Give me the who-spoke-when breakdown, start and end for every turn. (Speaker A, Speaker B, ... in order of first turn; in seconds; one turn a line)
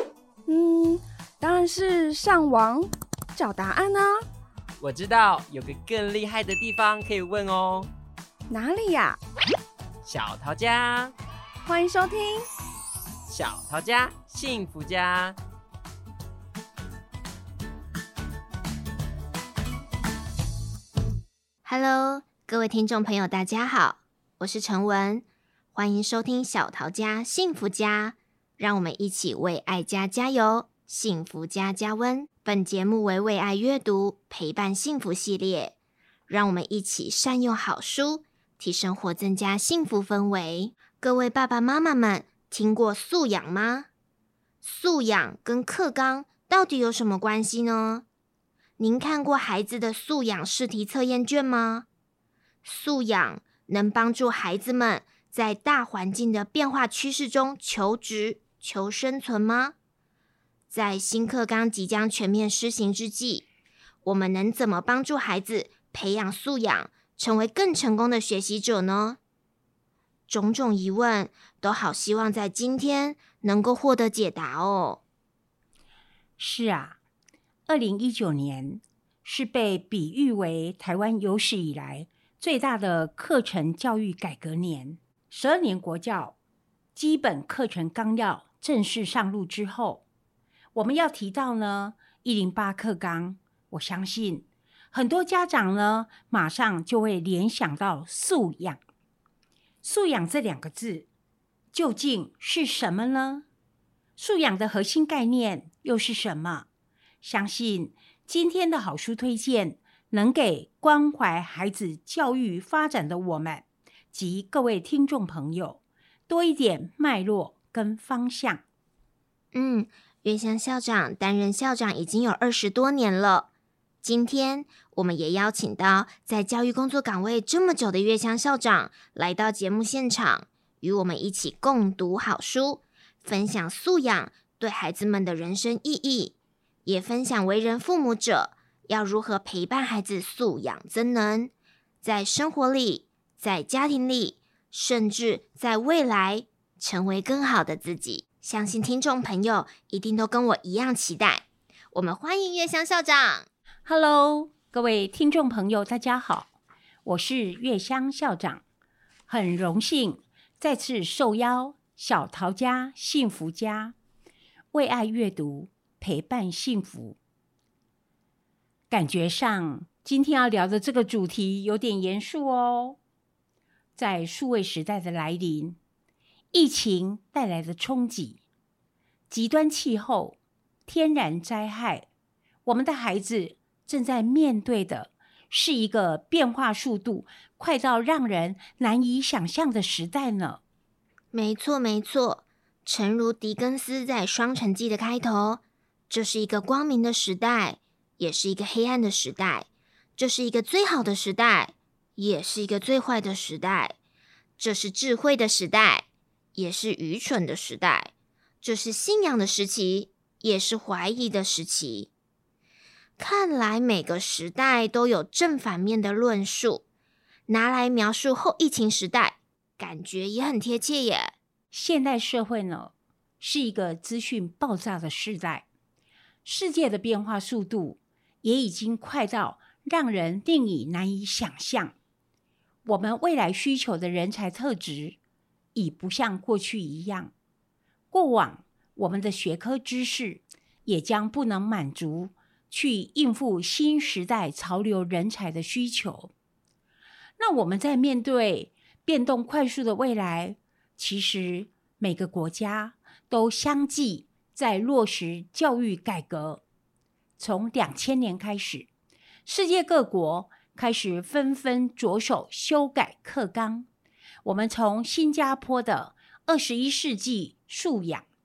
Speaker A: 0.5-4.1
Speaker B: 4.8-7.9
Speaker A: 8.5-9.2
Speaker B: 10.0-11.1
Speaker A: 11.6-12.4
Speaker B: 13.3-15.3
Speaker C: 21.6-35.7
Speaker C: 36.3-43.9
Speaker C: 44.6-48.0
Speaker C: 48.8-51.9
Speaker C: 52.6-59.7
Speaker C: 60.7-63.4
Speaker C: 64.0-69.2
Speaker C: 70.3-75.0
Speaker D: 76.4-77.0
Speaker D: 77.7-86.3
Speaker D: 86.9-90.0
Speaker D: 90.7-98.8
Speaker D: 99.8-101.0
Speaker D: 101.7-103.4
Speaker D: 104.2-106.7
Speaker D: 107.2-118.6
Speaker C: 119.5-123.5
Speaker C: 124.0-136.3
Speaker C: 136.8-141.5
Speaker C: 142.0-153.5
Speaker D: 153.8-156.5
Speaker D: 157.0-158.6
Speaker D: 159.3-163.9
Speaker D: 164.7-167.2
Speaker D: 168.9-173.0
Speaker D: 173.9-175.8
Speaker D: 176.5-178.4
Speaker D: 179.3-182.1
Speaker D: 182.7-190.6
Speaker C: 191.3-203.9
Speaker C: 204.6-208.1
Speaker C: 208.6-212.1
Speaker C: 213.2-216.8
Speaker C: 217.5-221.3
Speaker D: 221.7-225.6
Speaker D: 226.4-231.9
Speaker D: 232.8-235.2
Speaker D: 235.7-237.3
Speaker D: 238.1-246.3
Speaker D: 247.4-256.6
Speaker D: 257.4-258.9
Speaker D: 259.4-263.9
Speaker D: 264.4-268.2